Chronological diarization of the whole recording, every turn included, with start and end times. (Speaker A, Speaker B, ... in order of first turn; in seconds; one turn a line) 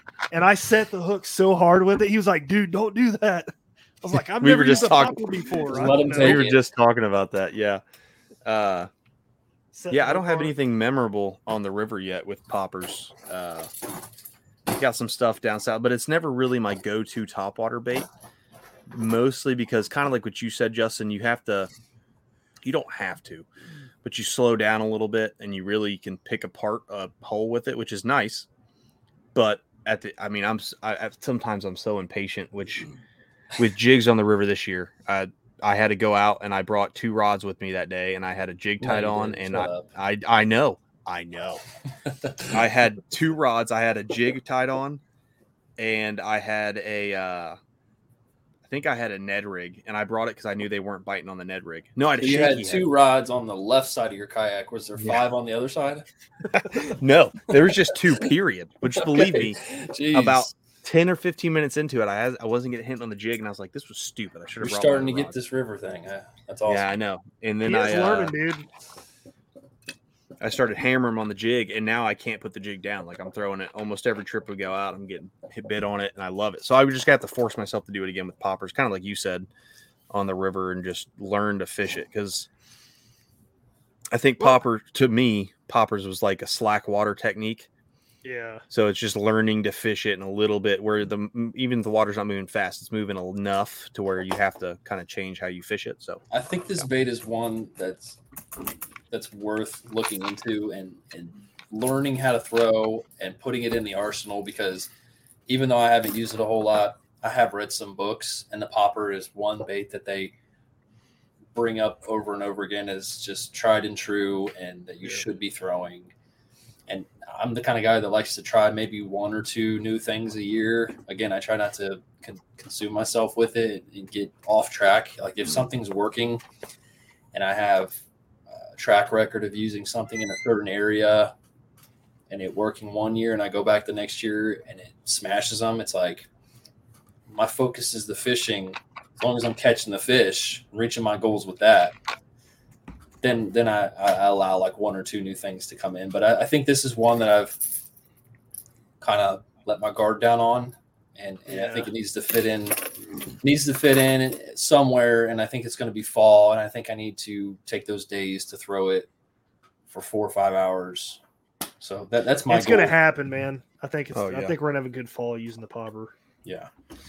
Speaker A: 0.3-6.4
Speaker B: 4.4-7.8
Speaker C: 5.7-6.6
Speaker B: 8.4-8.9
Speaker A: 9.7-10.5
Speaker B: 9.9-13.7
Speaker B: 14.7-18.1
Speaker B: 18.9-21.7
Speaker B: 22.6-23.5
Speaker B: 24.0-28.5
Speaker B: 29.3-32.9
Speaker B: 33.6-41.6
Speaker C: 38.8-39.9
Speaker B: 42.5-45.0
Speaker B: 45.8-47.6
Speaker B: 48.7-52.9
Speaker C: 52.2-56.0
Speaker B: 55.0-55.2
Speaker B: 56.5-65.4
Speaker C: 59.0-60.5
Speaker C: 64.6-66.9
Speaker B: 66.7-68.3
Speaker A: 67.6-68.7
Speaker B: 70.4-79.5
Speaker B: 80.1-82.5
Speaker B: 84.1-87.7
Speaker A: 88.2-88.6
Speaker B: 88.7-96.2
Speaker C: 96.3-98.2
Speaker C: 99.1-104.9
Speaker C: 105.5-110.3
Speaker C: 111.5-116.1
Speaker C: 116.9-126.4
Speaker C: 127.3-131.3
Speaker C: 132.3-136.3
Speaker C: 137.3-142.0
Speaker C: 143.2-147.6
Speaker C: 149.0-152.8
Speaker A: 151.5-151.9
Speaker C: 153.4-159.1
Speaker C: 159.9-161.2
Speaker C: 161.8-162.9
Speaker A: 162.5-166.1
Speaker B: 164.1-164.6